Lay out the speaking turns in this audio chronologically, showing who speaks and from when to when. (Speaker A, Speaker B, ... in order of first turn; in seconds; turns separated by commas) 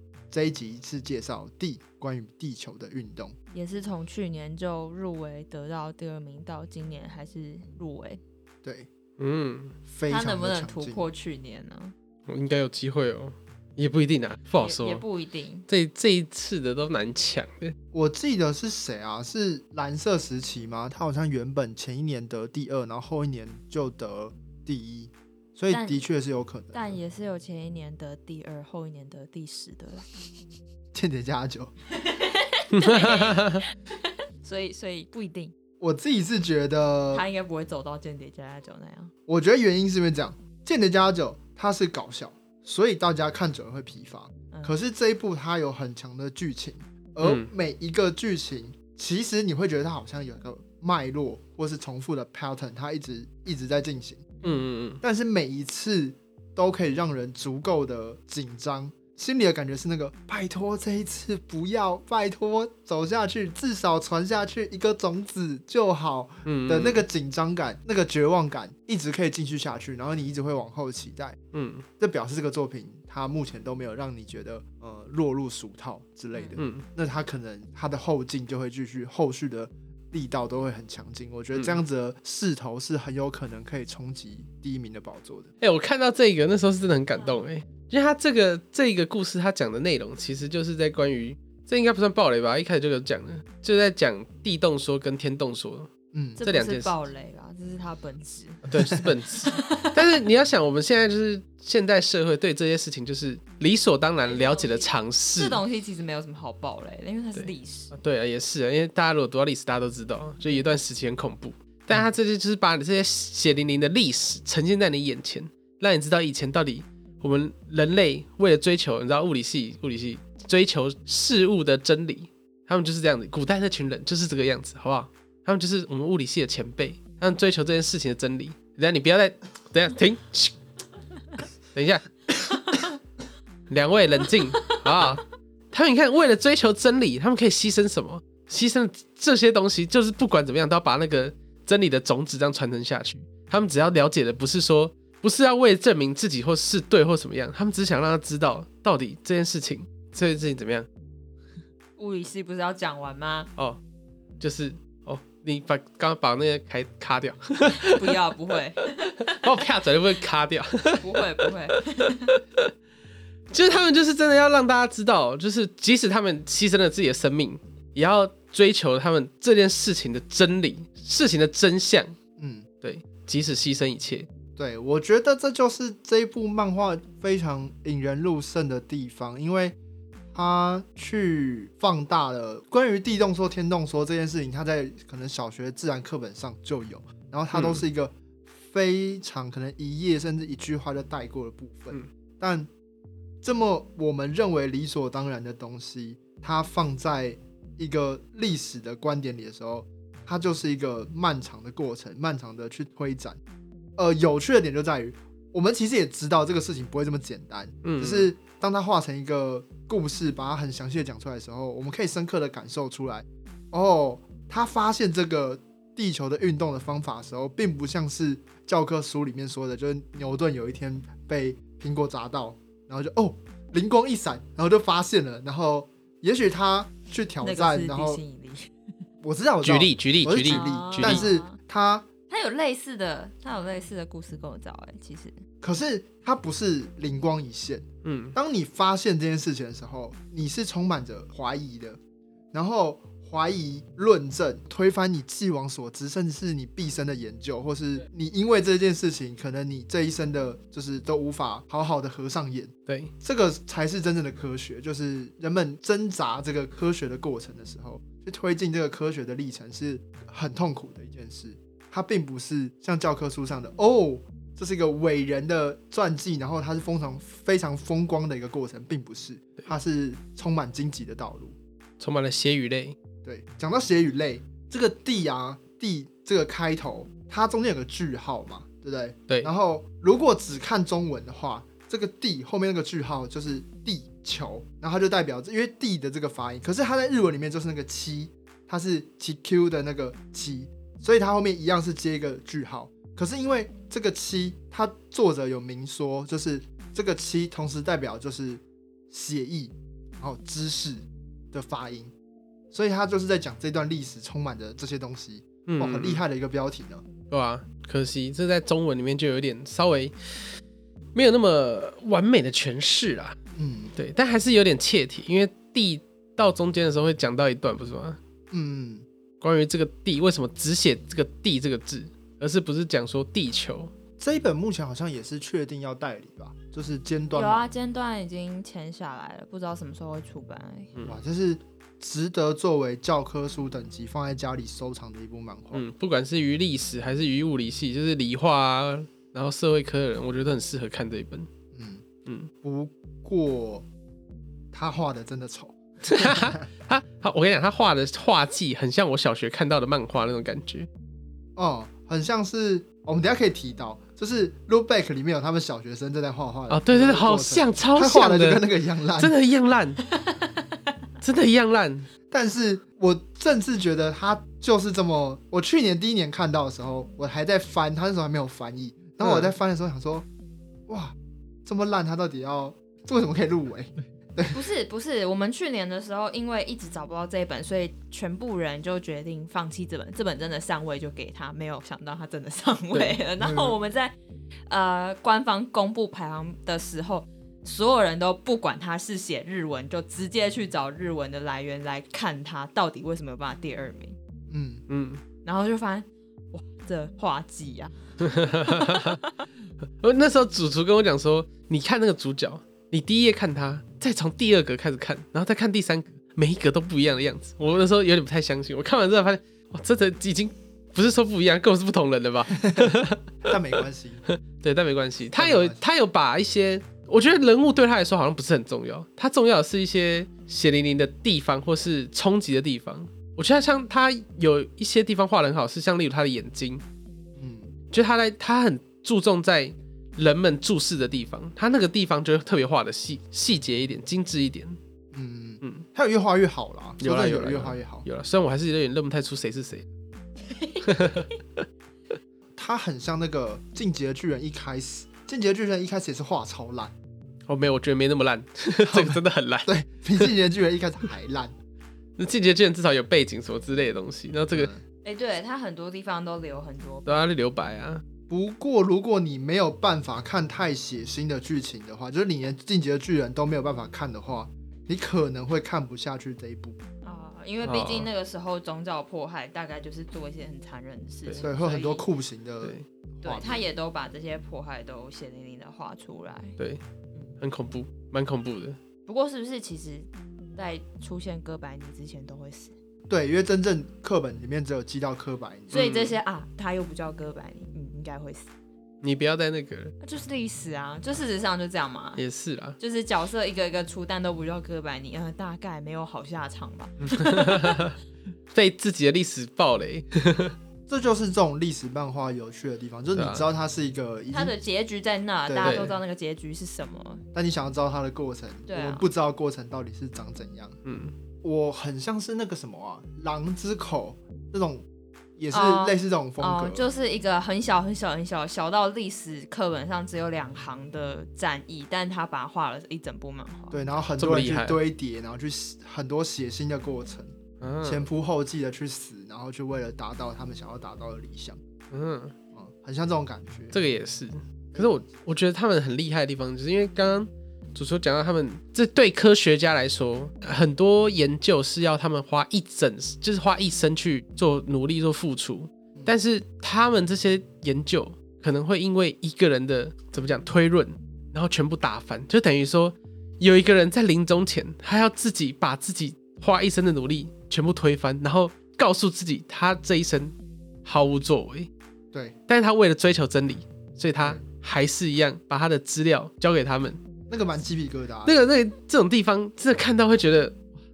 Speaker A: 0.3-3.4, Speaker B: 3.5-8.2, Speaker A: 8.6-8.9, Speaker C: 9.2-9.8, Speaker A: 9.9-11.1, Speaker B: 10.1-11.9, Speaker C: 12.3-15.0, Speaker B: 14.6-15.7, Speaker C: 15.7-17.8, Speaker A: 17.9-27.0, Speaker B: 25.7-26.1, Speaker B: 26.7-30.1, Speaker A: 30.9-31.7, Speaker B: 31.9-33.7, Speaker C: 32.7-33.6, Speaker B: 34.4-35.5, Speaker A: 35.8-37.2, Speaker B: 37.1-39.1, Speaker A: 39.3-54.2, Speaker B: 44.5-44.8, Speaker C: 47.2-47.5, Speaker C: 54.4-55.0, Speaker A: 55.0-71.4, Speaker C: 66.5-67.1, Speaker C: 71.5-71.8, Speaker A: 72.0-85.5, Speaker C: 76.6-76.8, Speaker C: 81.5-81.8, Speaker C: 85.6-95.9, Speaker A: 96.1-96.4, Speaker B: 96.4-98.9, Speaker C: 96.4-96.9, Speaker C: 98.7-105.6, Speaker B: 99.5-100.1, Speaker B: 104.2-108.0, Speaker C: 107.3-130.6, Speaker C: 131.7-132.2, Speaker C: 133.7-150.9, Speaker B: 134.5-135.0, Speaker B: 152.0-153.5, Speaker C: 154.4-158.2, Speaker B: 157.8-159.5, Speaker C: 159.2-161.5, Speaker B: 161.0-162.4, Speaker C: 162.0-162.7, Speaker C: 163.5-172.2, Speaker A: 172.4-172.7, Speaker C: 172.8-174.3, Speaker A: 174.6-179.8, Speaker A: 180.3-192.7, Speaker C: 187.5-187.8, Speaker A: 193.4-203.4, Speaker A: 204.0-228.2, Speaker C: 207.8-208.3, Speaker B: 227.4-228.7, Speaker A: 229.2-232.1, Speaker C: 229.6-231.3, Speaker B: 230.4-231.6, Speaker B: 232.3-235.4, Speaker A: 235.6-242.0, Speaker C: 238.0-238.4, Speaker A: 242.5-271.6, Speaker C: 252.9-253.1, Speaker C: 272.0-273.0, Speaker A: 273.2-302.1, Speaker A: 302.7-307.0, Speaker C: 305.7-306.2, Speaker C: 307.3-310.2, Speaker C: 311.1-313.4, Speaker A: 313.5-313.9, Speaker C: 314.0-318.2, Speaker A: 318.5-319.1, Speaker C: 319.4-323.9, Speaker A: 324.2-327.7, Speaker B: 327.3-330.9, Speaker A: 331.1-335.9, Speaker C: 335.7-341.5, Speaker A: 341.7-342.0, Speaker A: 342.6-343.9, Speaker A: 344.7-346.6, Speaker C: 346.0-350.9, Speaker A: 351.6-359.3, Speaker C: 356.7-360.0, Speaker B: 360.1-360.4, Speaker C: 361.2-362.1, Speaker A: 362.3-370.3, Speaker C: 369.2-369.6, Speaker A: 370.9-374.6, Speaker B: 374.5-384.1, Speaker C: 382.9-383.2, Speaker A: 383.4-383.8, Speaker B: 384.7-394.2, Speaker A: 394.5-394.8, Speaker C: 394.9-395.2, Speaker B: 395.4-399.5, Speaker C: 398.3-399.2, Speaker C: 400.0-413.3, Speaker A: 412.6-412.9, Speaker A: 413.4-414.2, Speaker C: 414.2-426.8, Speaker A: 415.4-415.8, Speaker A: 427.4-427.7, Speaker C: 427.9-434.8, Speaker A: 435.1-438.1, Speaker C: 437.0-439.9, Speaker B: 440.5-441.3, Speaker C: 440.8-441.6, Speaker A: 442.6-446.9, Speaker C: 447.5-450.3, Speaker A: 448.9-451.5, Speaker C: 452.2-454.7, Speaker A: 454.5-454.8, Speaker B: 455.0-457.1, Speaker C: 457.1-458.0, Speaker A: 458.3-466.8, Speaker B: 467.0-472.1, Speaker C: 467.6-468.1, Speaker A: 471.4-473.6, Speaker B: 473.2-476.6, Speaker B: 477.1-477.4, Speaker C: 477.4-478.8, Speaker B: 479.1-482.8, Speaker A: 483.1-485.9, Speaker B: 485.7-488.5, Speaker C: 485.7-486.2, Speaker C: 489.0-489.9, Speaker B: 490.0-492.2, Speaker C: 492.2-492.8, Speaker B: 492.8-497.9, Speaker C: 497.0-497.9, Speaker C: 498.5-500.6, Speaker A: 500.9-504.6, Speaker C: 503.1-503.5, Speaker B: 504.3-507.2, Speaker A: 505.5-505.9, Speaker C: 505.6-505.9, Speaker A: 507.3-510.8, Speaker B: 508.7-509.1, Speaker C: 510.8-511.1, Speaker A: 511.4-514.9, Speaker A: 515.4-516.9, Speaker B: 515.5-524.0, Speaker A: 523.7-527.3, Speaker C: 524.2-524.8, Speaker C: 527.6-528.1, Speaker A: 527.8-531.6, Speaker C: 531.9-532.4, Speaker A: 532.5-533.8, Speaker C: 533.7-561.7, Speaker A: 534.7-535.1, Speaker C: 562.5-567.0, Speaker A: 567.3-568.4, Speaker C: 568.2-570.6